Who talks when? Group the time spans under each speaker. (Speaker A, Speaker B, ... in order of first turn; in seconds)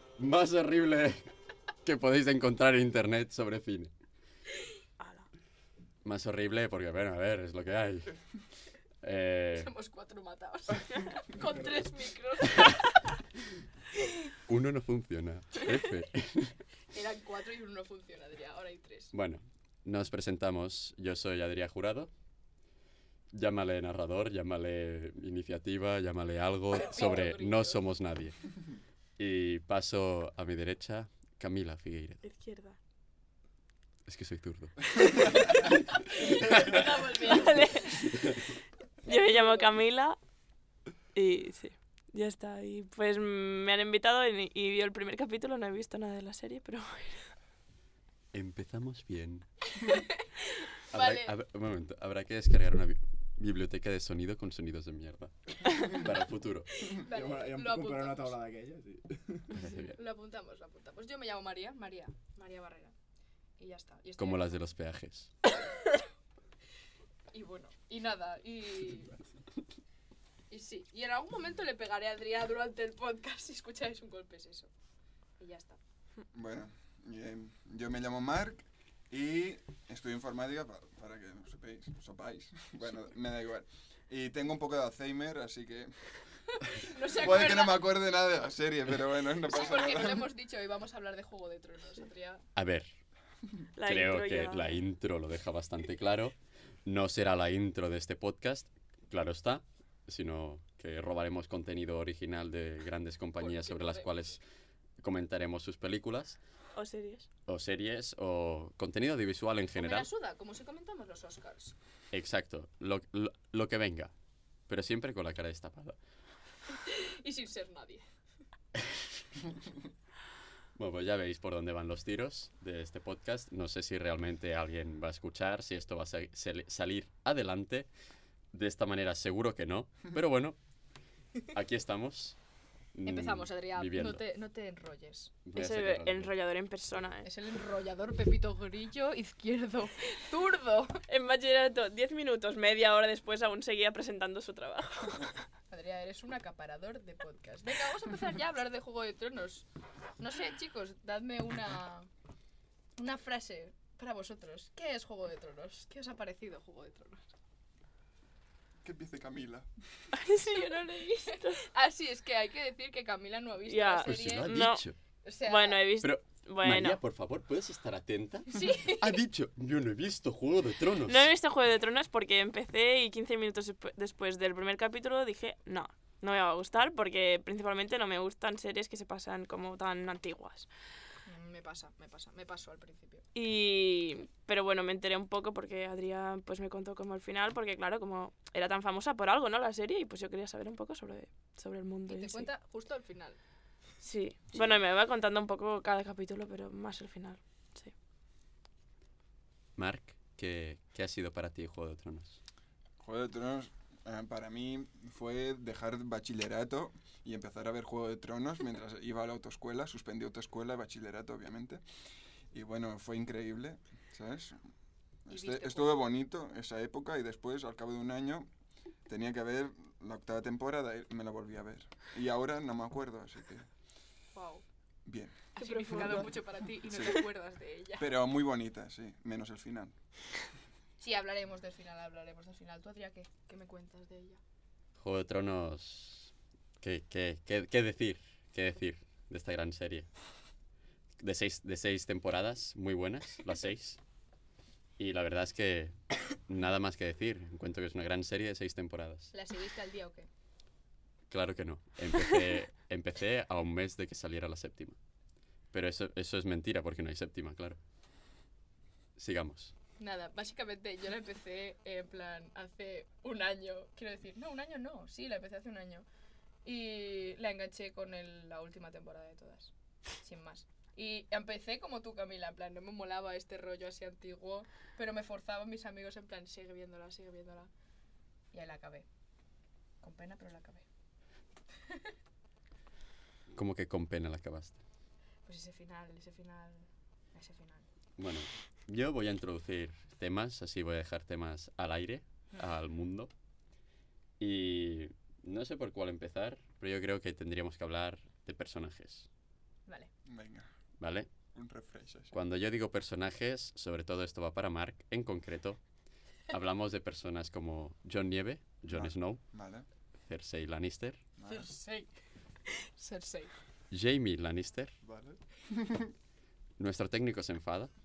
Speaker A: 0.2-1.2, 1.9-3.9, 6.0-8.2, 9.0-9.7, 14.5-16.6, 19.1-22.1, 23.3-28.4, 29.2-32.2, 34.1-35.8, 36.5-36.8, 48.3-49.5, 50.9-56.7, 59.5-60.0, 64.2-65.3, 92.6-93.0, 93.8-104.4, 105.0-106.4, 107.5-110.1, 112.1-114.1, 114.7-116.0, 118.8-119.1, 120.8-127.9, 128.5-130.6, 131.5-132.4, 132.9-134.2, 135.5-136.3, 164.0-165.0, 166.0-171.3, 199.8-202.4, 235.0-240.1, 241.2-244.0, 245.0-249.3, 251.3-255.0, 255.7-257.8, 259.2-259.7, 283.5-284.8, 288.2-293.3, 294.4-299.3, 301.0-301.3, 302.3-305.8, 306.5-309.4, 310.3-311.2, 313.9-314.9, 316.8-317.9
Speaker B: 5.0-5.3, 32.2-32.8, 36.2-38.4, 39.0-40.2, 41.1-47.3, 93.8-94.8, 106.8-107.3, 135.6-137.3, 141.1-145.3, 160.1-161.6, 163.7-164.8, 165.5-167.0, 171.1-180.7, 183.3-192.5, 194.0-197.9, 225.6-226.4
Speaker C: 9.6-13.1, 16.9-19.1, 26.8-27.9, 35.9-38.1, 39.1-39.7, 49.8-51.3, 56.8-58.4, 59.6-62.9, 63.6-64.6, 67.3-69.1, 70.5-74.7, 75.4-75.8, 86.6-87.9, 89.4-92.4, 103.4-104.3, 109.8-111.8, 116.9-118.0, 133.0-135.3, 137.2-141.0, 145.7-149.7, 150.2-152.1, 153.0-157.3, 160.4-164.6, 165.2-165.9, 168.5-169.2, 181.2-183.2, 192.1-193.4, 215.3-216.0, 224.3-224.6, 225.6-228.1, 231.0-234.4, 249.3-250.3, 260.0-266.1, 266.6-277.7, 278.5-279.1, 280.0-280.9, 285.5-287.9, 311.4-312.1, 312.7-313.5
Speaker D: 57.0-59.6
Speaker E: 76.3-86.0, 87.0-90.3, 158.8-159.7, 194.5-194.8, 203.0-211.8, 212.5-214.6, 215.3-218.5, 219.1-223.7, 225.1-225.4, 226.8-227.2, 228.0-230.0, 300.3-300.7, 301.5-302.4, 308.9-309.9, 311.4-311.7, 315.0-316.1